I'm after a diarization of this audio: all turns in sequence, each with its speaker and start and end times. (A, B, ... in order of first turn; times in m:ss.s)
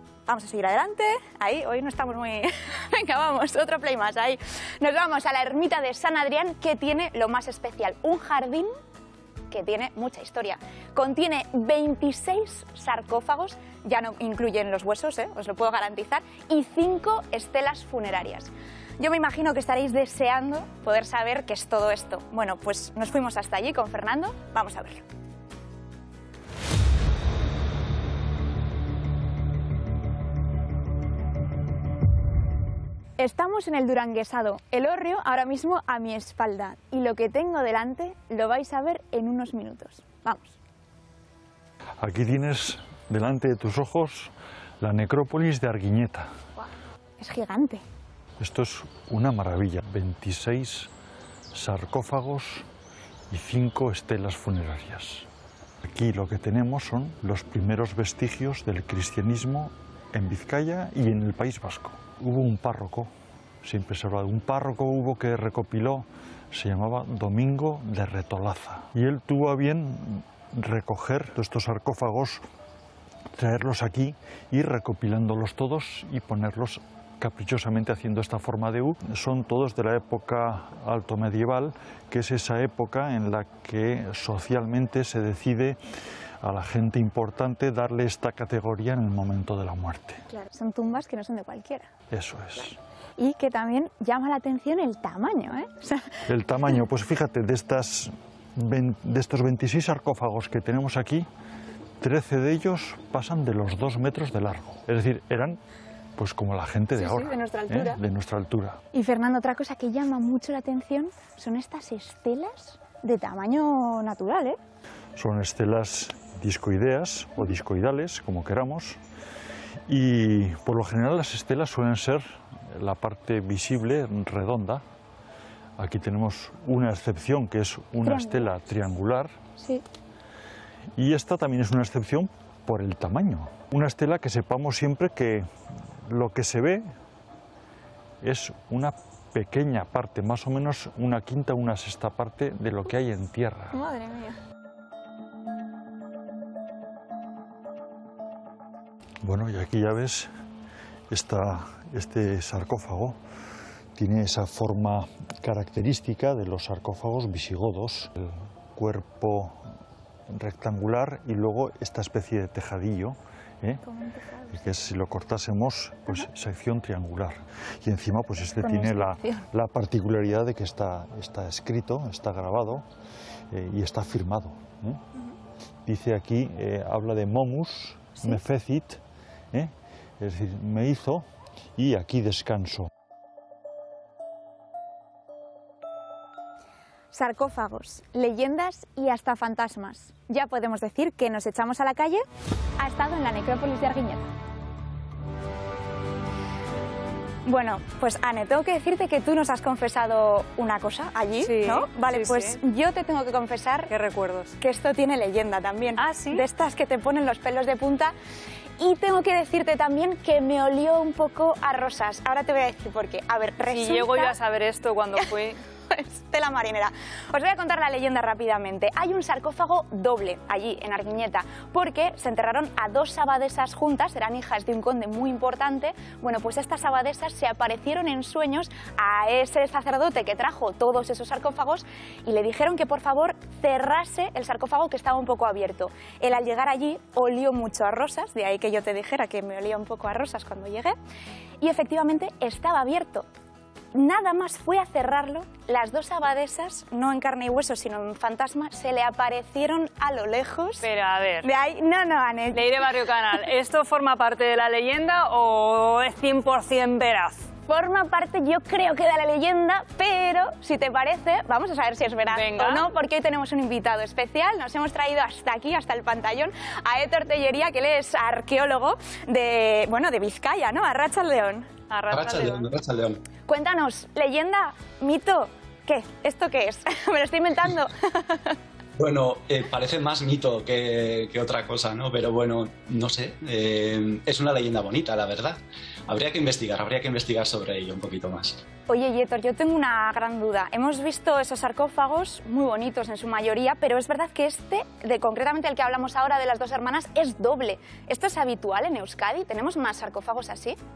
0:00.3-0:08.7 A
0:09.5-0:25.0 A
0:33.2-0:40.6 A
0:42.0-0:46.3 B
0:47.2-0:47.8 A
0:48.4-0:50.9 B
0:51.5-0:52.7 B
0:53.3-0:55.3 B
0:55.8-1:03.1 B
1:03.6-1:12.4 B
1:13.3-1:25.8 B
1:26.4-1:30.2 B
1:30.4-1:31.9 A
1:32.1-1:32.8 B
1:33.2-1:36.2 A
1:36.3-1:41.3 B
1:42.0-1:45.6 B
1:46.2-1:48.8 B
1:47.0-1:48.0 A
1:48.9-1:54.6 A
1:55.2-1:59.0 B
1:59.9-2:04.8 B
2:05.8-2:09.4 B
2:08.0-2:08.6 A
2:09.6-2:09.8 A
2:11.0-2:15.5 B
2:16.1-2:16.9 B
2:18.2-2:23.8 B
2:23.7-2:24.4 A
2:29.2-2:30.3 B
2:31.1-2:33.2 B
2:34.0-2:39.6 B
2:40.3-2:43.8 B
2:43.8-2:44.6 A
2:44.5-2:52.8 B
2:48.6-2:49.4 A
2:53.5-2:55.0 B
2:55.9-2:59.0 B
2:59.5-3:01.2 B
3:01.8-3:02.9 B
3:07.1-3:12.2 A
3:12.8-3:14.3 A
3:17.4-3:23.9 A
3:21.4-3:22.6 C
3:23.9-3:24.5 C
3:24.6-3:28.1 A
3:26.0-3:26.4 C
3:28.8-3:34.4 A
3:33.7-3:35.6 C
3:35.9-4:01.0 A
4:01.6-4:03.3 A
4:03.9-4:10.9 A
4:10.8-4:11.5 C
4:11.4-4:12.7 A
4:12.5-4:17.4 C
4:17.7-4:31.7 A
4:22.3-4:22.8 C
4:31.9-4:32.7 C
4:32.1-4:33.2 D
4:33.4-4:38.6 A
4:39.0-4:48.6 D
4:48.9-5:00.8 A